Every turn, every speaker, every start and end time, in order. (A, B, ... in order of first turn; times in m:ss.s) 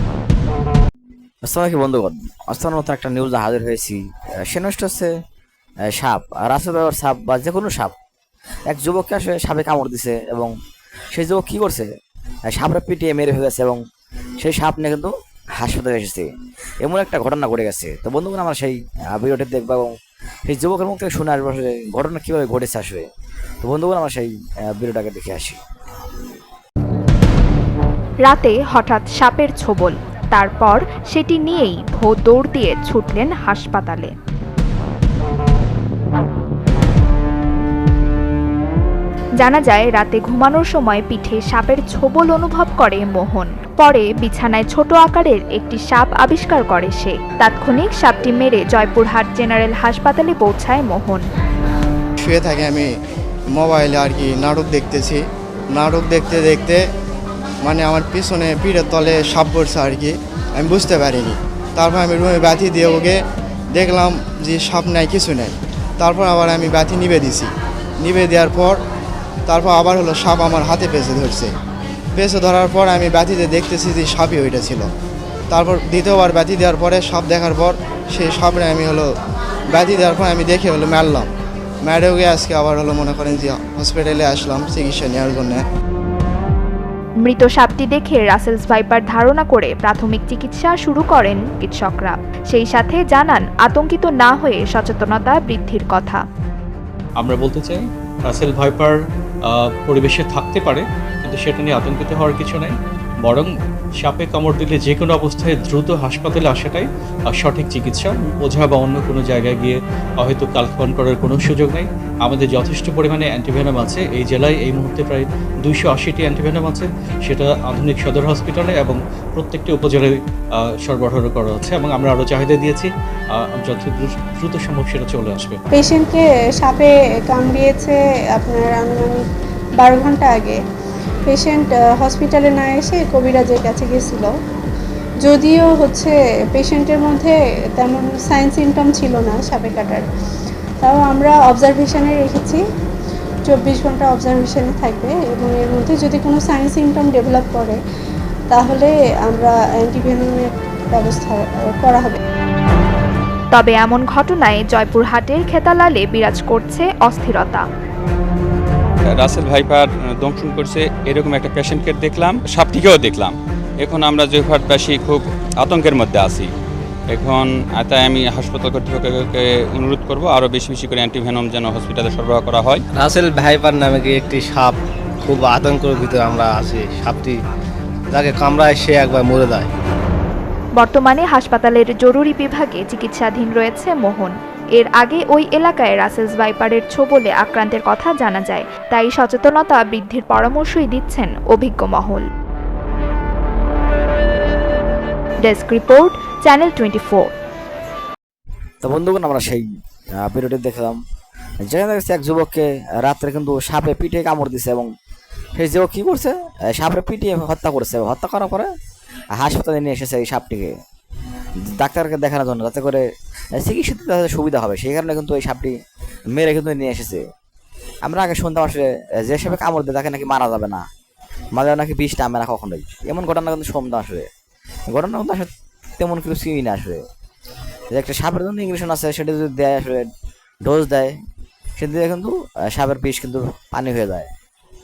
0:01.5-0:05.1 A
0:05.9-0:08.0 A
0:08.7-0:10.5 A
0:11.1-0:11.9 A
0:12.5-0:13.8 A
0:14.4-0:16.3 A
0:16.8-0:19.9 A
0:20.5-0:23.1 A
0:23.6-0:25.6 A
0:28.2-0:34.1 B
0:39.4-0:51.3 B
0:52.2-0:52.9 C
0:53.5-0:56.8 C
0:57.6-1:03.2 C
1:03.7-1:08.8 C
1:09.5-1:11.5 C
1:12.2-1:14.9 C
1:15.5-1:19.1 C
1:19.7-1:21.3 C
1:21.8-1:25.6 C
1:27.2-1:36.2 B
1:37.2-2:05.6 D
2:05.7-2:09.2 E
2:09.8-2:10.6 E
2:11.3-2:14.4 E
2:15.2-2:20.0 E
2:20.8-2:22.6 E
2:23.4-2:27.8 E
2:28.5-2:32.2 E
2:33.5-2:37.6 B
2:39.1-2:46.5 F
2:47.1-2:52.8 F
2:53.0-2:57.4 G
2:58.1-2:59.7 G
3:00.8-3:12.3 B
3:15.4-3:17.3 B
3:18.8-3:19.6 A
3:20.2-3:21.0 A
3:21.6-3:24.9 A
3:25.6-3:28.7 A
3:29.4-3:30.8 A
3:31.7-3:35.8 A
3:36.3-3:37.2 A
3:38.0-3:40.9 A
3:41.6-3:44.3 A
3:44.9-3:47.0 A
3:47.9-3:50.1 A
3:50.6-3:51.2 A
3:51.8-3:54.3 A